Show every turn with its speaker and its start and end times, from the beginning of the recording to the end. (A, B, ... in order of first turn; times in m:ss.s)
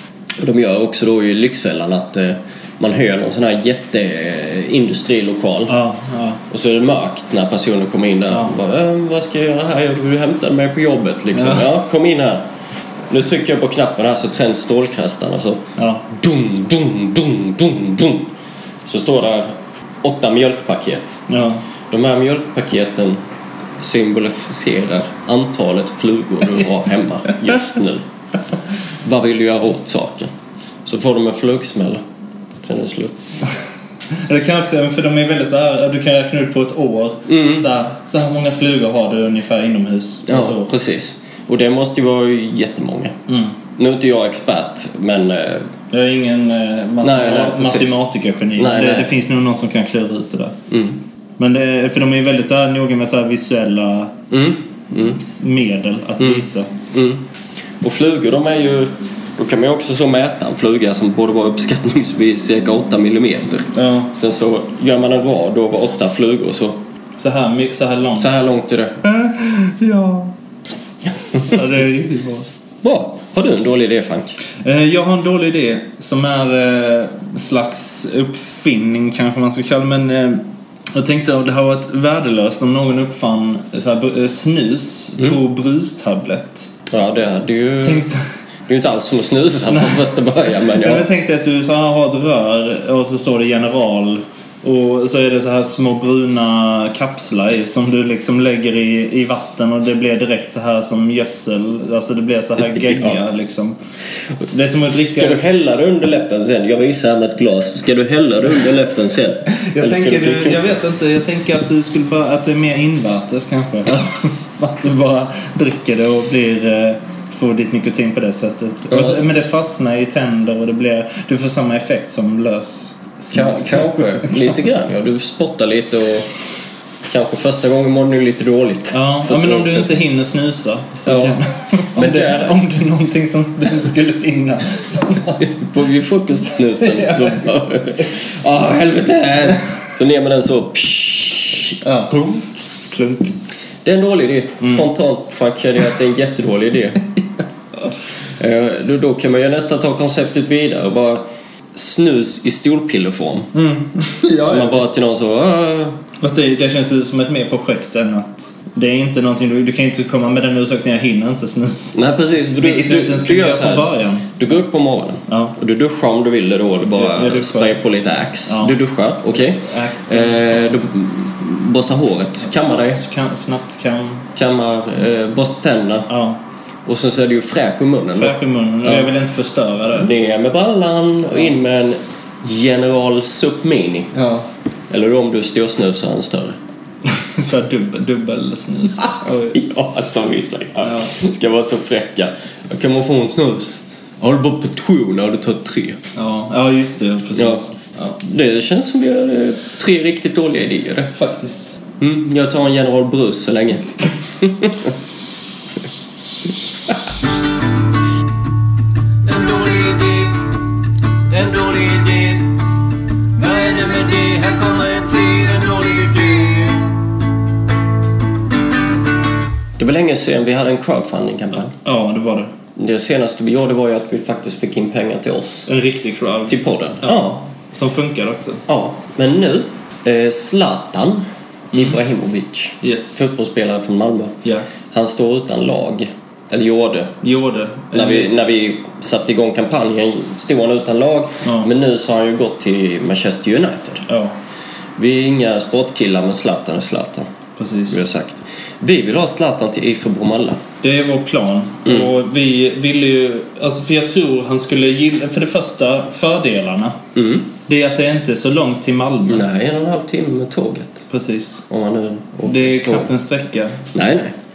0:00.4-0:05.8 A
0:05.7-0:06.4 B
0:06.5-0:12.4 A
0:08.3-0:08.6 B
0:11.3-0:11.7 B
0:13.1-0:18.3 A
0:15.8-0:16.1 B
0:18.8-0:21.2 A
0:21.3-0:21.6 B
0:21.9-0:23.2 A
0:23.8-0:28.0 A
0:29.0-0:30.3 A
0:30.8-0:32.0 A
0:32.6-0:33.2 A
0:34.1-0:40.7 B
0:37.3-0:37.6 A
0:40.2-0:43.2 A
0:43.3-0:43.6 B
0:43.8-0:45.7 A
0:45.9-0:50.6 B
0:47.0-0:48.0 A
0:48.6-0:49.1 A
0:50.7-0:51.0 A
0:51.4-0:54.2 B
0:54.3-0:55.2 A
0:54.9-0:56.7 B
0:56.2-0:57.2 A
0:57.8-1:06.8 A
1:03.7-1:04.1 B
1:07.2-1:08.3 B
1:08.1-1:09.0 A
1:09.0-1:10.3 B
1:11.4-1:12.5 B
1:12.8-1:14.4 A
1:14.6-1:26.7 B
1:26.9-1:28.0 A
1:27.8-1:28.2 B
1:28.7-1:31.0 A
1:29.7-1:30.0 B
1:30.7-1:43.8 B
1:42.8-1:43.2 A
1:44.5-1:45.5 B
1:45.1-1:50.6 A
1:49.5-2:04.5 B
1:58.9-1:59.2 A
2:03.3-2:06.3 A
2:07.1-2:10.0 A
2:08.9-2:15.6 B
2:11.0-2:11.4 A
2:11.9-2:12.6 A
2:15.4-2:21.8 A
2:16.8-2:17.4 B
2:21.8-2:23.4 B
2:23.8-2:27.0 A
2:24.6-2:24.9 B
2:28.4-2:33.5 A
2:33.5-2:34.9 B
2:34.4-2:36.0 A
2:36.2-2:42.0 B
2:41.9-2:53.0 A
2:42.5-2:44.3 B
2:45.3-2:45.5 B
2:46.8-2:47.8 B
2:48.4-2:48.8 B
2:49.3-2:50.8 B
2:52.4-2:54.3 B
2:54.3-2:56.1 A
2:56.1-2:56.4 B
2:56.8-2:59.1 A
2:58.1-3:00.1 B
2:59.9-3:04.1 A
3:04.1-3:04.4 B
3:04.9-3:06.6 A
3:07.1-3:09.6 B
3:09.0-3:16.0 A
3:10.8-3:11.1 B
3:16.1-3:18.2 B
3:17.3-3:17.6 A
3:18.2-3:21.1 A
3:21.1-3:21.8 B
3:22.0-3:25.0 A
3:29.2-3:30.5 C
3:31.3-3:32.6 C
3:33.4-3:37.0 C
3:39.8-3:41.7 A
3:41.8-3:42.5 B
3:42.8-3:45.7 A
3:45.7-3:48.6 B
3:46.5-3:47.4 A
3:48.7-3:57.2 A
3:51.7-3:52.0 B
3:52.8-3:53.2 B
3:57.2-3:58.3 B
3:57.9-4:04.0 A
4:01.4-4:01.7 B
4:04.1-4:04.4 B
4:05.0-4:07.3 A
4:07.6-4:08.0 B
4:07.9-4:10.6 A
4:10.8-4:17.0 B
4:11.8-4:12.1 A
4:17.1-4:17.5 A
4:17.6-4:19.4 B
4:19.3-4:21.1 A
4:21.1-4:21.6 B
4:21.7-4:23.1 A
4:22.4-4:23.8 B
4:23.9-4:24.3 A